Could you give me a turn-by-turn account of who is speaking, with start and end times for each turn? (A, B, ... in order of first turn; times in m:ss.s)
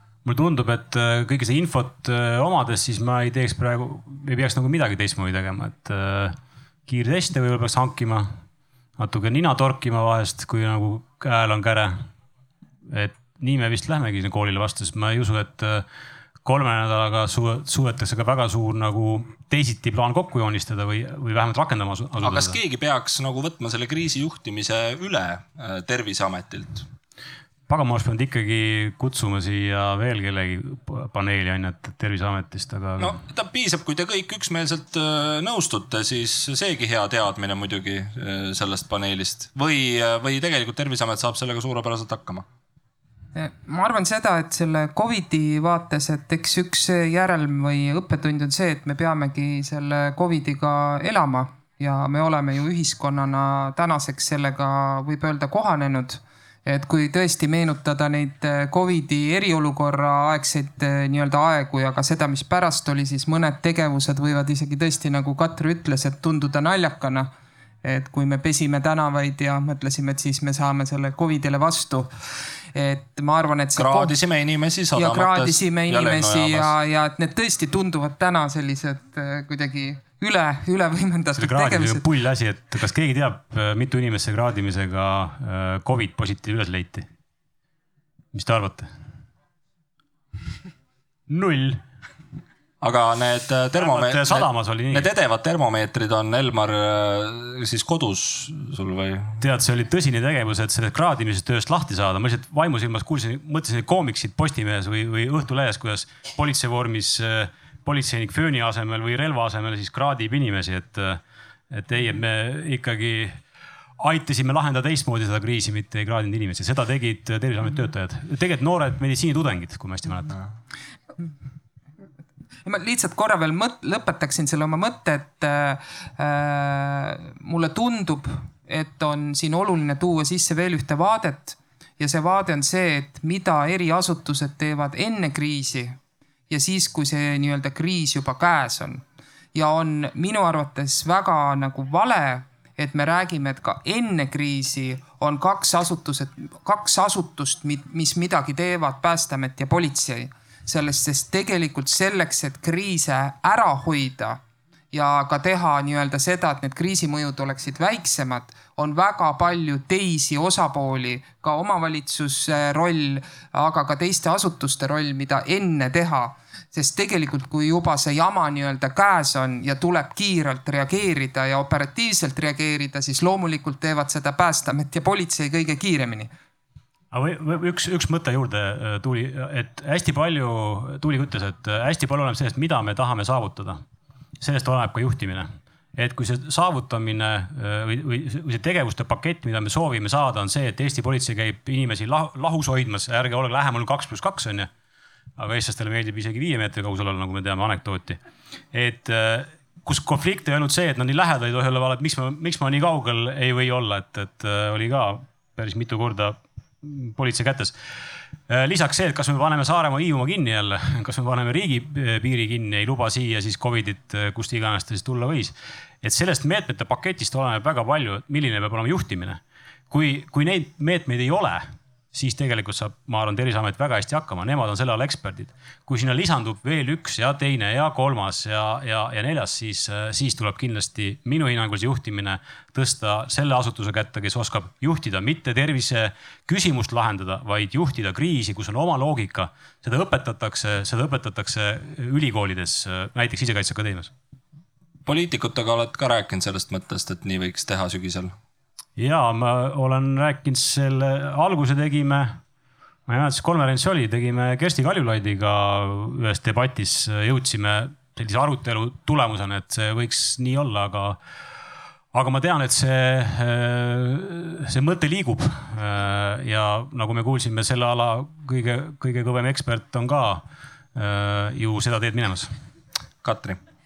0:00.2-0:08.3 A
0:09.0-0:12.1 A
0:12.9-0:15.8 A
0:16.4-0:22.6 A
0:22.2-0:26.9 B
0:27.7-0:33.2 A
0:33.0-0:42.4 B
0:43.3-1:07.3 C
1:07.8-1:12.1 C
1:12.7-1:14.1 C
1:13.8-1:16.7 B
1:14.9-1:22.0 C
1:21.4-1:27.1 A
1:28.3-1:28.9 A
1:31.3-1:31.8 A
1:32.8-1:39.4 B
1:33.8-1:35.0 A
1:39.4-1:51.2 A
1:51.7-1:53.4 A
1:54.0-2:00.4 A
2:02.6-2:16.0 C
2:16.5-2:19.0 C
2:19.5-2:34.4 C
2:34.9-2:56.3 C
2:57.1-3:03.8 A
3:04.4-3:14.7 A
3:15.4-3:18.2 A
3:18.7-3:27.7 A
3:28.5-3:39.4 A
3:39.9-4:04.1 A
4:05.0-4:08.3 B
4:09.0-4:12.4 A
4:13.1-4:21.2 A
4:22.1-4:30.4 A
4:30.9-4:32.5 A
4:33.2-4:33.6 B